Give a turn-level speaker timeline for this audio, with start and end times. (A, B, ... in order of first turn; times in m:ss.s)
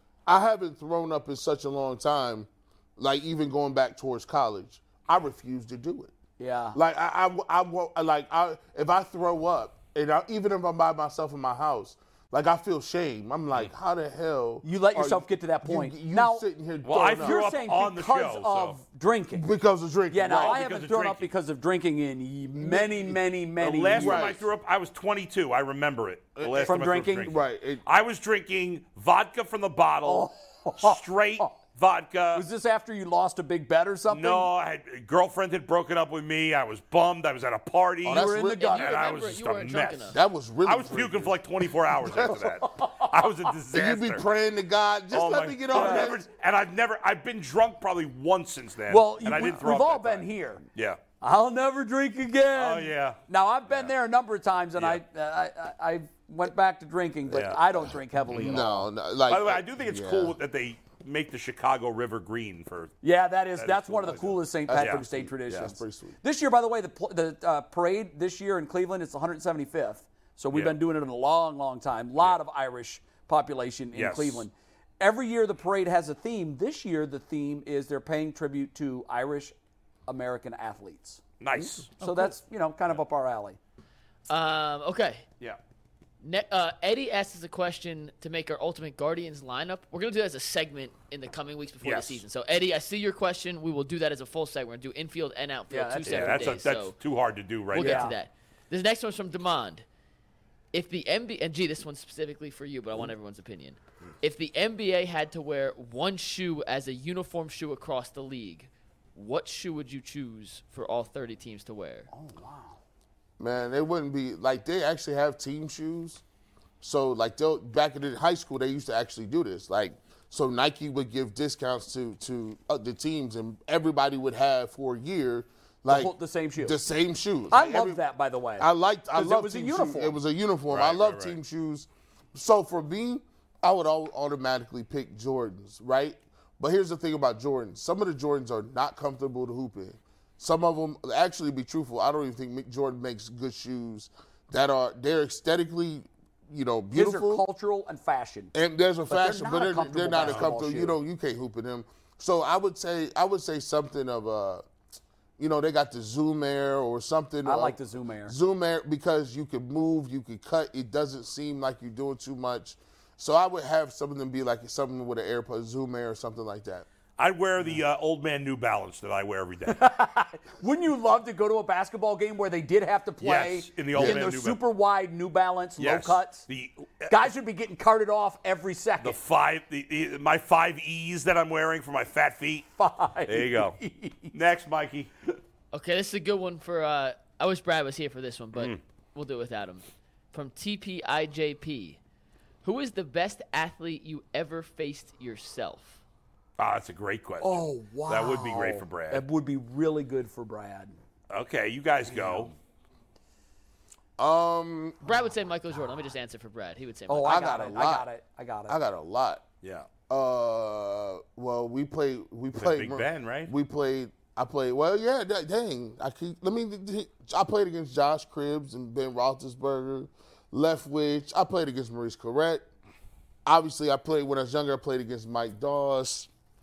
0:00.3-0:06.1 A
0:06.4-0:06.8 B
0:06.7-0:17.4 A
0:14.6-0:16.4 B
0:16.8-0:18.8 C
0:17.2-0:19.5 B
0:19.3-0:20.6 A
0:20.1-0:24.4 B
0:20.3-0:21.3 C
0:22.6-0:23.2 A
0:23.6-0:32.4 C
0:23.9-0:24.5 A
0:26.4-0:27.8 A
0:26.6-0:27.3 B
0:30.0-0:31.5 B
0:32.3-0:34.5 B
0:34.1-0:44.2 C
0:38.0-0:38.8 A
0:38.0-0:38.9 B
0:38.6-0:40.2 D
0:40.1-0:42.3 A
0:42.2-0:43.2 B
0:43.7-0:46.2 A
0:45.1-0:51.0 C
0:45.7-0:46.1 B
0:48.9-0:50.6 B
0:51.2-0:58.9 B
0:52.6-0:53.9 C
0:57.3-0:58.6 C
0:58.4-1:00.4 A
0:59.3-1:02.9 C
1:03.0-1:19.6 B
1:03.6-1:05.7 C
1:04.7-1:06.2 A
1:10.5-1:10.8 C
1:13.9-1:14.4 C
1:20.1-1:21.2 B
1:21.4-1:22.3 C
1:22.0-1:23.6 B
1:24.3-1:25.3 D
1:26.2-1:37.0 D
1:31.8-1:32.2 C
1:35.7-1:36.7 B
1:36.0-1:38.1 C
1:37.7-1:39.9 D
1:37.7-1:38.1 B
1:40.7-1:52.1 D
1:52.1-1:52.8 B
1:53.4-1:56.2 A
1:56.8-2:08.0 A
2:05.9-2:06.8 B
2:07.5-2:10.2 B
2:08.6-2:27.4 A
2:10.7-2:11.4 C
2:26.9-2:28.5 B
2:28.5-2:34.6 A
2:29.1-2:31.0 B
2:30.2-2:30.5 C
2:35.4-2:46.9 A
2:37.4-2:38.4 B
2:47.2-2:49.8 C
2:49.7-2:56.5 B
2:53.2-2:54.6 C
2:53.9-2:54.2 A
2:55.8-2:57.2 C
2:57.1-2:59.2 B
2:59.0-3:02.7 C
3:02.8-3:04.4 B
3:03.3-3:03.8 C
3:04.3-3:05.1 C
3:05.7-3:12.0 D
3:08.5-3:08.8 C
3:12.6-3:16.0 D
3:16.6-3:19.3 C
3:17.4-3:21.0 B
3:21.3-3:22.5 C
3:22.1-3:22.5 B
3:24.2-3:25.0 A
3:25.0-3:27.8 D
3:27.1-3:28.8 B
3:27.2-3:28.1 A
3:28.7-3:29.5 A
3:29.6-3:29.9 C
3:30.1-3:42.6 A
3:32.6-3:33.5 C
3:43.5-3:46.3 A